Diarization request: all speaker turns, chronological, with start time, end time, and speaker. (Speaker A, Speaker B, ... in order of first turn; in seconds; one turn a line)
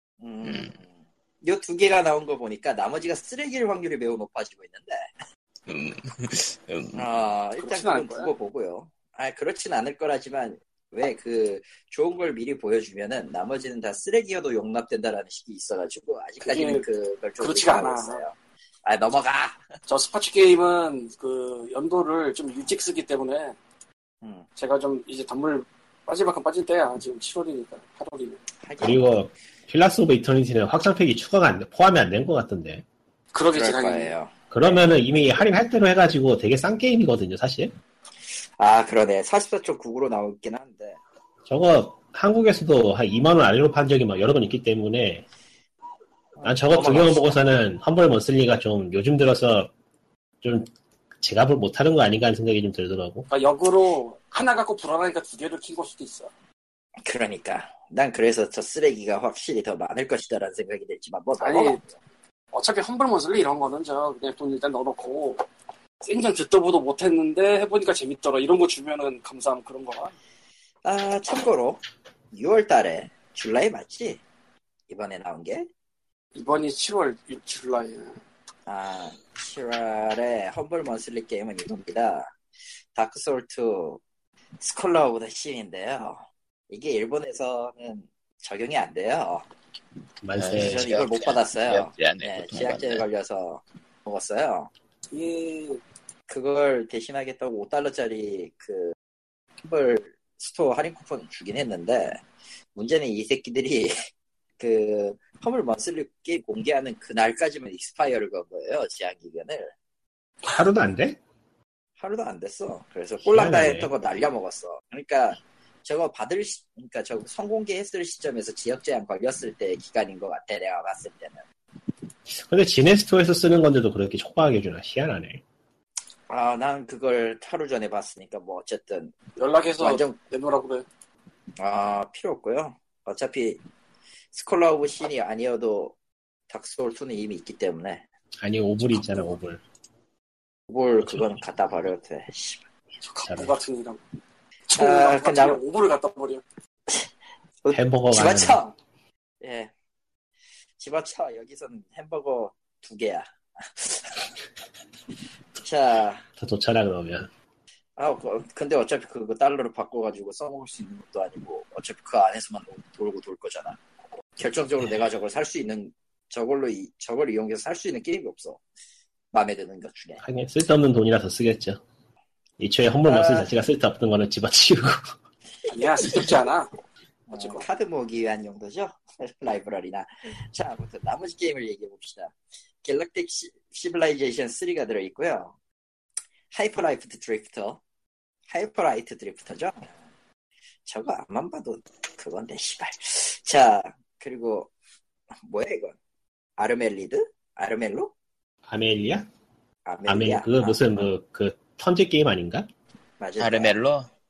Speaker A: 0.2-5.1
Speaker B: 0.4-0.8
Speaker B: 5.7-7.1
Speaker A: 7.0-19.6
Speaker C: 7.6-8.3
Speaker C: 16.4-16.9
Speaker C: 17.4-18.2
Speaker C: 19.9-23.6
Speaker C: 24.6-28.4
Speaker A: 28.6-29.1
Speaker D: 28.8-32.8
Speaker C: 33.3-34.1
Speaker A: 33.5-34.4
Speaker D: 34.5-37.7
Speaker A: 38.6-41.0
Speaker D: 41.5-45.2
Speaker A: 46.4-47.4
Speaker D: 46.4-49.7
Speaker D: 50.4-53.3
Speaker C: 53.3-56.3
Speaker A: 57.0-61.9
Speaker C: 61.4-61.8
Speaker C: 62.5-65.5
Speaker C: 66.0-70.1
Speaker A: 70.8-74.2
Speaker A: 74.9-75.7
Speaker C: 76.3-78.2
Speaker A: 78.7-82.4
Speaker A: 83.0-84.0
Speaker A: 84.6-89.5
Speaker D: 90.2-90.9
Speaker B: 90.4-93.0
Speaker A: 90.5-94.7
Speaker C: 95.1-95.8
Speaker A: 96.3-99.0
Speaker A: 99.6-102.2
Speaker A: 102.8-104.0
Speaker A: 104.6-109.7
Speaker D: 110.5-111.2
Speaker A: 112.0-121.4
Speaker D: 113.2-113.9
Speaker D: 122.3-125.4
Speaker A: 126.3-129.1
Speaker C: 129.4-130.9
Speaker A: 129.8-130.2
Speaker A: 131.6-133.6
Speaker A: 134.3-136.0
Speaker A: 136.5-138.1
Speaker D: 138.4-139.6
Speaker A: 140.7-142.6
Speaker D: 141.0-141.4
Speaker C: 143.0-144.0
Speaker D: 143.2-143.6
Speaker C: 144.7-146.4
Speaker A: 144.8-145.6
Speaker A: 147.6-148.7
Speaker D: 147.7-148.6
Speaker A: 149.4-149.7
Speaker A: 150.8-154.3
Speaker A: 155.6-156.2
Speaker D: 156.4-157.3
Speaker A: 158.0-163.8
Speaker A: 164.4-168.6
Speaker A: 169.3-170.2
Speaker D: 170.2-171.8
Speaker D: 172.6-175.1
Speaker A: 173.1-173.5
Speaker C: 175.7-176.7
Speaker A: 177.3-185.6
Speaker C: 177.3-177.6
Speaker A: 186.5-187.8
Speaker A: 188.5-189.9
Speaker A: 190.9-194.7
Speaker A: 195.4-196.0
Speaker A: 196.6-198.1
Speaker D: 198.7-199.2
Speaker A: 199.8-201.1
Speaker D: 200.1-202.7
Speaker A: 203.2-203.8
Speaker B: 203.4-204.1